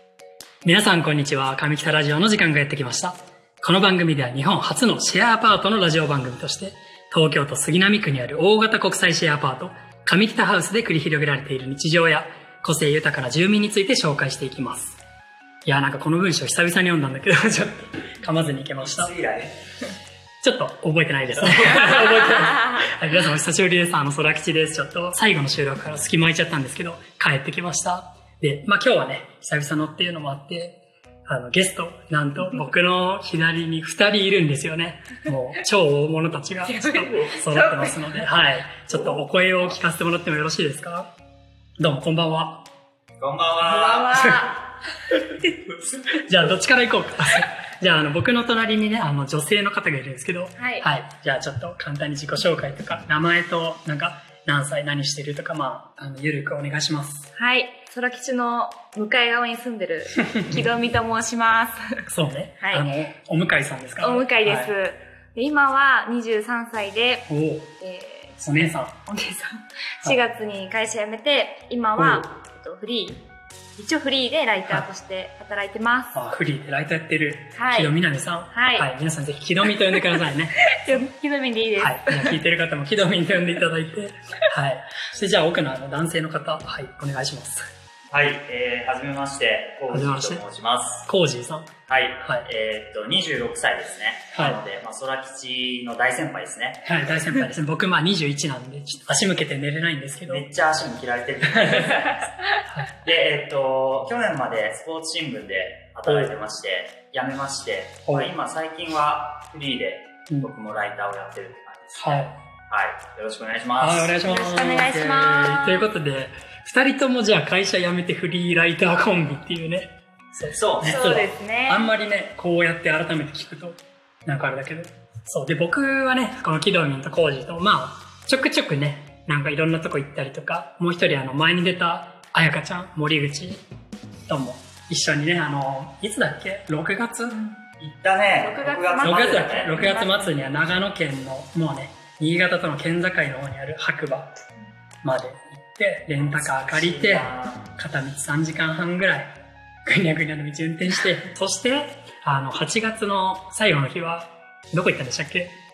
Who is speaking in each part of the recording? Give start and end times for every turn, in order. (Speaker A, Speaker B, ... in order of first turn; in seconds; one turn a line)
Speaker A: 0.6-15.0
Speaker A: 15.7-19.1
Speaker B: 18.8-19.6
Speaker A: 20.4-41.1
Speaker C: 36.6-38.3
Speaker B: 38.9-39.2
Speaker A: 41.8-42.6
Speaker B: 43.2-44.1
Speaker C: 43.6-44.7
Speaker A: 44.1-44.5
Speaker A: 46.2-57.3
Speaker C: 50.5-50.9
Speaker C: 57.3-62.1
Speaker A: 60.3-60.7
Speaker A: 62.1-64.7
Speaker C: 62.6-62.9
Speaker C: 64.0-73.2
Speaker A: 67.3-67.7
Speaker A: 68.4-68.9
Speaker A: 72.0-72.3
Speaker C: 73.8-76.1
Speaker A: 76.1-81.0
Speaker C: 77.5-78.0
Speaker C: 78.5-78.9
Speaker C: 79.8-82.4
Speaker A: 81.8-87.7
Speaker B: 88.1-91.1
Speaker A: 89.9-90.4
Speaker A: 91.1-92.5
Speaker B: 91.9-96.9
Speaker A: 94.3-94.6
Speaker A: 96.8-100.5
Speaker B: 100.3-102.3
Speaker A: 101.6-101.9
Speaker B: 102.9-114.1
Speaker A: 106.1-106.3
Speaker A: 112.0-112.4
Speaker A: 113.8-133.7
Speaker C: 114.2-115.9
Speaker B: 120.5-121.0
Speaker C: 120.8-121.9
Speaker A: 134.3-137.4
Speaker C: 137.3-137.6
Speaker B: 137.7-139.8
Speaker C: 138.4-140.4
Speaker A: 139.0-144.4
Speaker A: 145.0-149.3
Speaker B: 146.2-147.7
Speaker A: 149.8-155.6